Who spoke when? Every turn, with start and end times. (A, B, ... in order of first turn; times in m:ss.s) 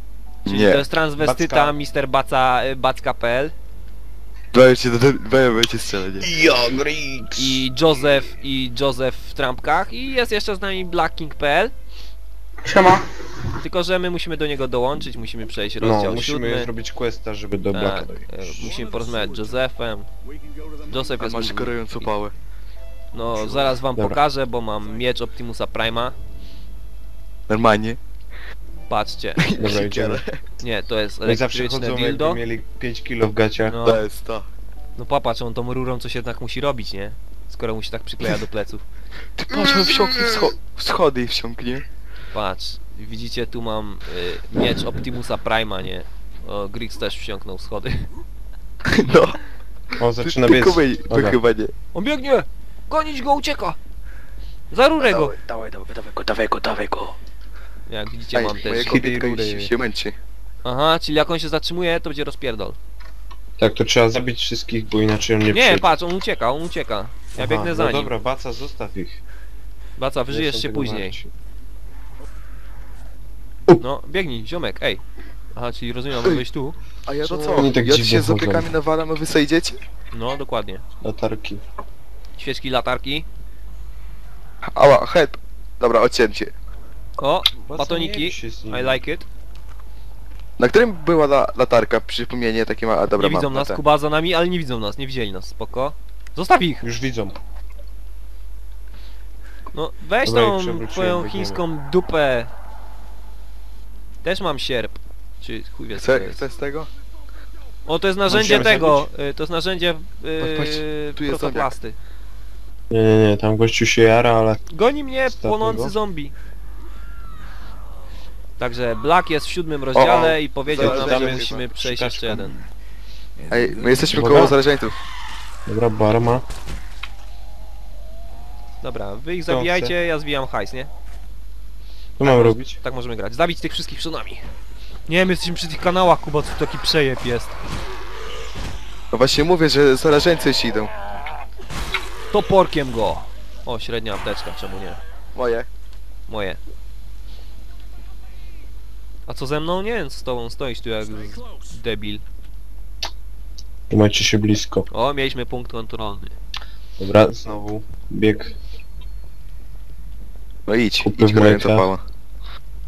0:00.4-0:00.8 A
0:00.4-0:03.5 B
0:01.2-0:01.8 C
0:04.5-0:06.3 A
0:06.2-0:07.6 C
0:07.4-0:11.7 B
0:12.6-0:13.3 C
0:13.6-0:16.7 B
0:15.8-0:18.7 C
0:17.7-0:20.1 B
0:20.8-0:21.8 B
0:21.1-0:22.3 A
0:23.1-0:26.2 B
0:23.9-0:24.2 C
0:27.5-0:28.0 A
0:28.9-0:29.5 B
0:29.4-0:30.4 A
0:29.6-0:30.2 C
0:30.6-0:32.4 B
0:31.2-0:33.8 C
0:33.7-0:34.0 B
0:33.8-0:34.5 A
0:35.0-0:38.8 B
0:39.4-0:41.8 A
0:39.5-0:40.5 C
0:42.3-0:48.1 B
0:48.8-0:49.4 A
0:50.0-0:51.4 C
0:50.2-0:51.7 A
0:51.9-0:53.8 B
0:54.7-0:55.4 B
0:55.0-0:57.1 A
0:57.9-0:59.0 B
0:58.3-1:00.2 A
0:58.7-0:59.7 C
1:00.6-1:02.8 B
1:03.6-1:06.0 C
1:05.5-1:08.1 B
1:07.3-1:09.2 C
1:10.0-1:11.2 B
1:10.3-1:11.3 C
1:13.8-1:15.0 B
1:15.5-1:16.8 B
1:17.0-1:19.8 A
1:17.2-1:18.7 C
1:20.1-1:20.8 B
1:21.0-1:21.6 C
1:22.4-1:23.2 B
1:24.7-1:26.5 A
1:27.2-1:29.2 B
1:27.6-1:29.0 C
1:30.6-1:33.8 A
1:33.2-1:36.8 B
1:36.8-1:37.4 C
1:39.7-1:42.5 B
1:40.2-1:41.6 C
1:44.2-1:46.4 B
1:46.0-1:46.9 A
1:47.8-1:52.0 B
1:48.3-1:49.1 C
1:50.4-1:51.7 A
1:52.9-1:54.6 C
1:54.7-1:56.3 B
1:55.3-1:55.9 C
1:58.6-2:02.5 B
1:59.9-2:01.6 A
2:00.7-2:02.6 C
2:03.5-2:05.0 A
2:04.1-2:04.6 C
2:05.6-2:06.4 C
2:08.8-2:10.9 B
2:09.5-2:09.9 C
2:12.2-2:12.8 C
2:12.2-2:14.4 B
2:15.1-2:17.6 B
2:19.1-2:20.9 A
2:22.3-2:25.0 B
2:25.3-2:25.7 A
2:26.3-2:26.6 B
2:29.3-2:32.2 B
2:33.9-2:34.9 C
2:34.9-2:36.3 B
2:37.0-2:38.6 C
2:40.7-2:42.0 A
2:41.0-2:41.9 C